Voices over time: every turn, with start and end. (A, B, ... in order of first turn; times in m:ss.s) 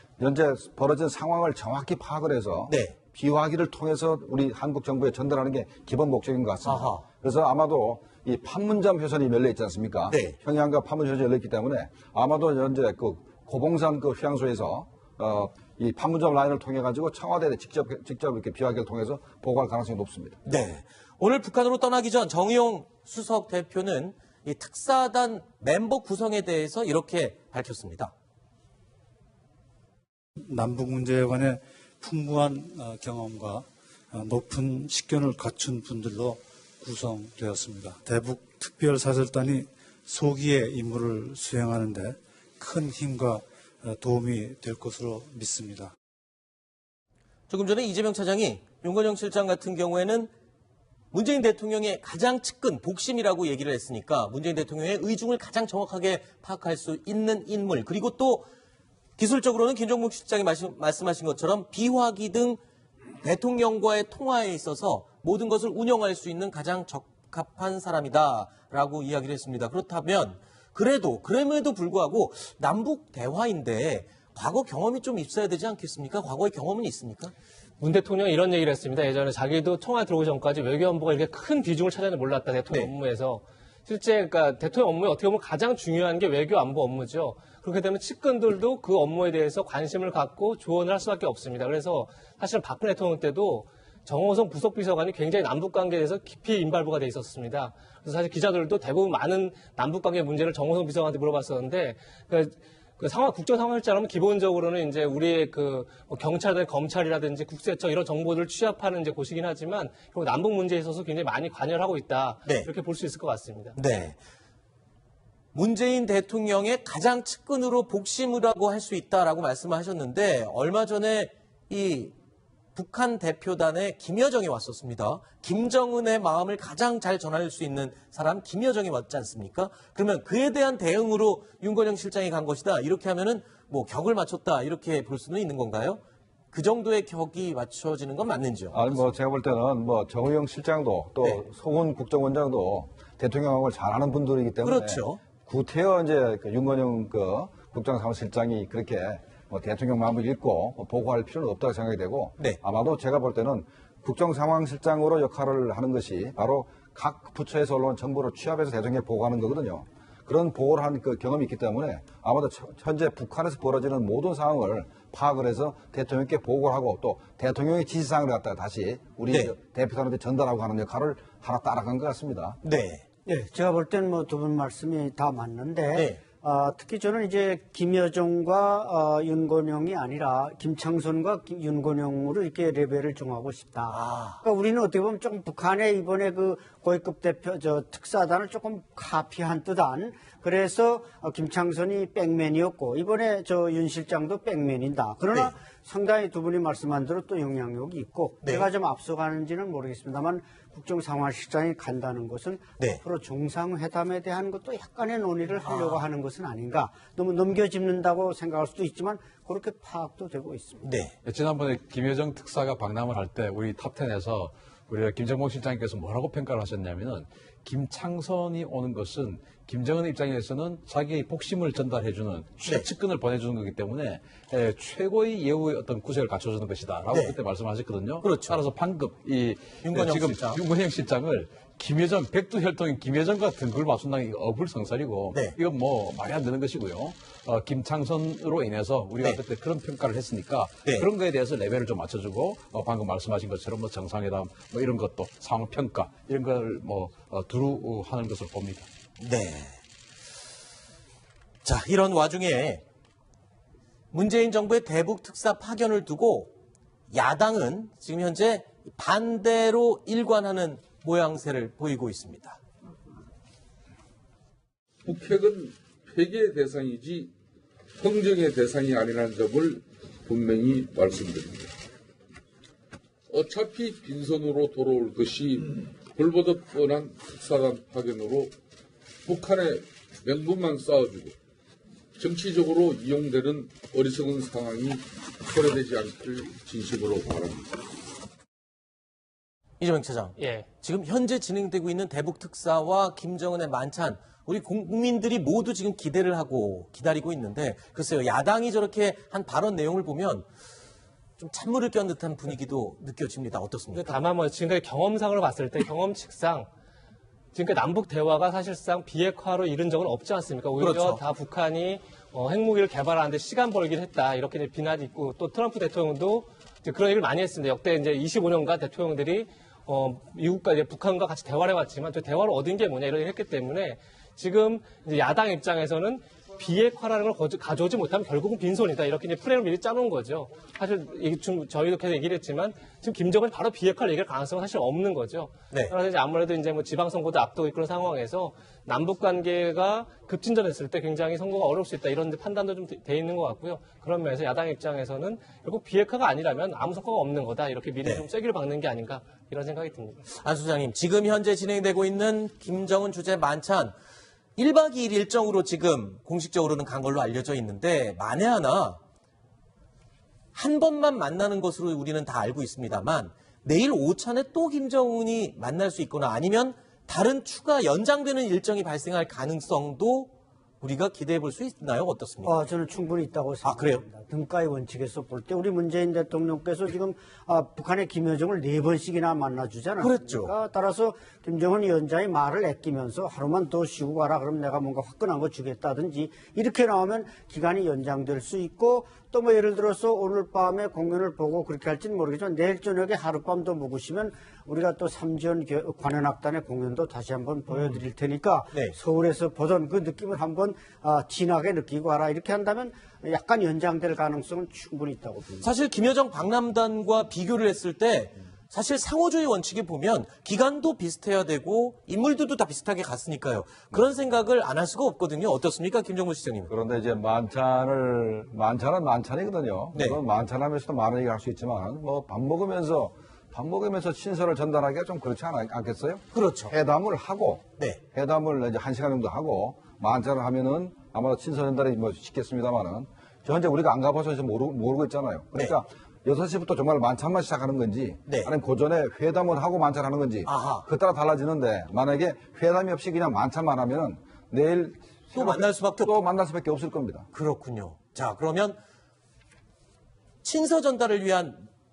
0:00.2-0:20.4 A
0:02.7-0:03.0 B
0:06.6-0:07.1 B
0:10.1-0:10.4 B
0:20.4-0:28.1 B
0:30.4-0:45.9 C
0:47.5-0:50.3 B
0:51.1-0:58.4 B
0:59.2-1:02.6 B
1:03.2-1:17.3 B
1:17.8-1:53.8 D
1:52.4-1:52.7 B
1:53.7-1:54.2 B
1:55.5-2:02.1 B
2:02.7-2:16.0 B
2:16.5-2:19.1 B
2:18.7-2:52.6 A
2:24.6-2:25.2 B
2:49.3-2:49.5 B
2:52.6-2:53.4 B
2:53.3-3:30.9 E
2:55.9-2:56.2 B
3:03.9-3:04.4 B
3:18.4-3:18.7 B
3:25.6-3:26.0 B
3:30.8-3:31.1 B
3:31.2-4:08.9 F
3:47.1-3:47.4 B
3:48.2-3:48.6 B
3:49.8-3:50.6 B
4:09.2-4:09.8 B
4:11.6-4:12.8 B
4:14.1-4:16.5 B
4:17.1-4:22.6 B
4:25.0-4:27.3 G
4:28.0-4:31.7 G
4:33.3-4:38.5 G
4:39.2-4:41.3 G
4:42.2-4:47.7 G
4:49.8-5:00.4 B
4:50.4-4:50.7 D
5:01.4-5:04.2 B
5:03.9-5:06.7 D
5:07.5-5:50.2 D
5:10.8-5:11.2 B
5:50.2-5:53.9 B
5:54.6-5:59.0 B
6:00.5-6:12.6 B
6:12.4-6:45.7 E
6:13.6-6:14.0 B
6:20.0-6:20.5 B
6:37.7-6:38.0 B
6:38.7-6:39.0 B
6:45.6-6:56.7 B
6:56.7-7:27.3 A
6:59.9-7:00.2 B
7:06.3-7:06.7 B
7:18.2-7:18.5 B
7:20.4-7:20.8 B
7:25.3-7:26.2 B
7:27.3-7:28.8 B
7:30.4-7:31.6 B